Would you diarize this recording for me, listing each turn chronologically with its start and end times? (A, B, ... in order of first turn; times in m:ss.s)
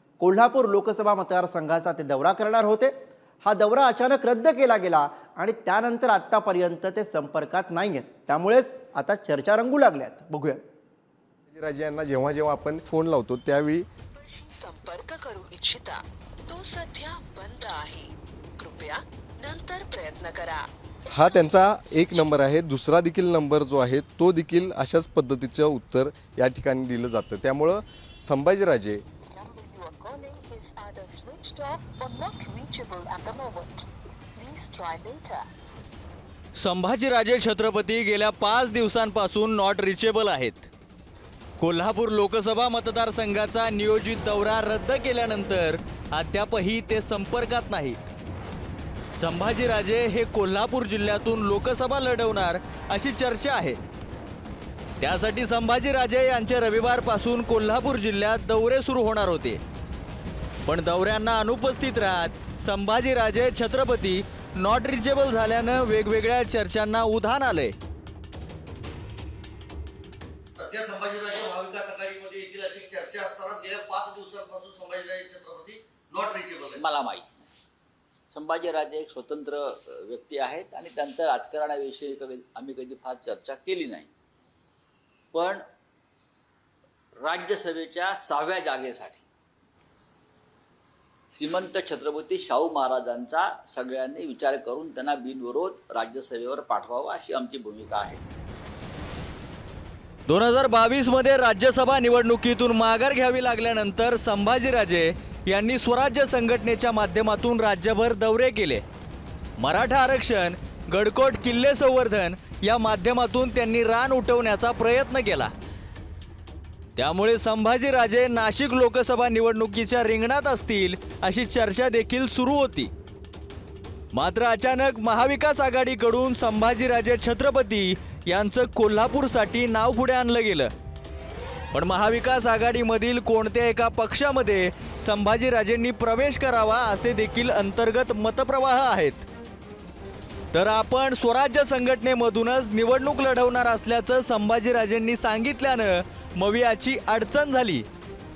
0:00.2-0:10.6 A
0:11.5-0:13.8 B
0:14.2-0:20.7 C
0:21.1-0:29.0 B
0:29.3-0:35.4 C
0:36.6-0:40.7 D
0:41.6-0:48.0 D
0:49.2-0:53.8 D
0:55.0-0:59.6 D
1:00.6-1:07.7 D
1:10.5-1:16.8 E
1:16.7-1:17.5 F
1:18.3-1:24.1 F
1:25.3-1:25.6 F
1:27.2-1:29.2 F
1:31.3-1:38.2 F
1:40.3-1:48.8 D
1:49.6-1:55.5 D
1:57.0-2:02.9 D
2:04.1-2:10.7 D
2:11.7-2:19.2 D
2:20.5-2:27.8 D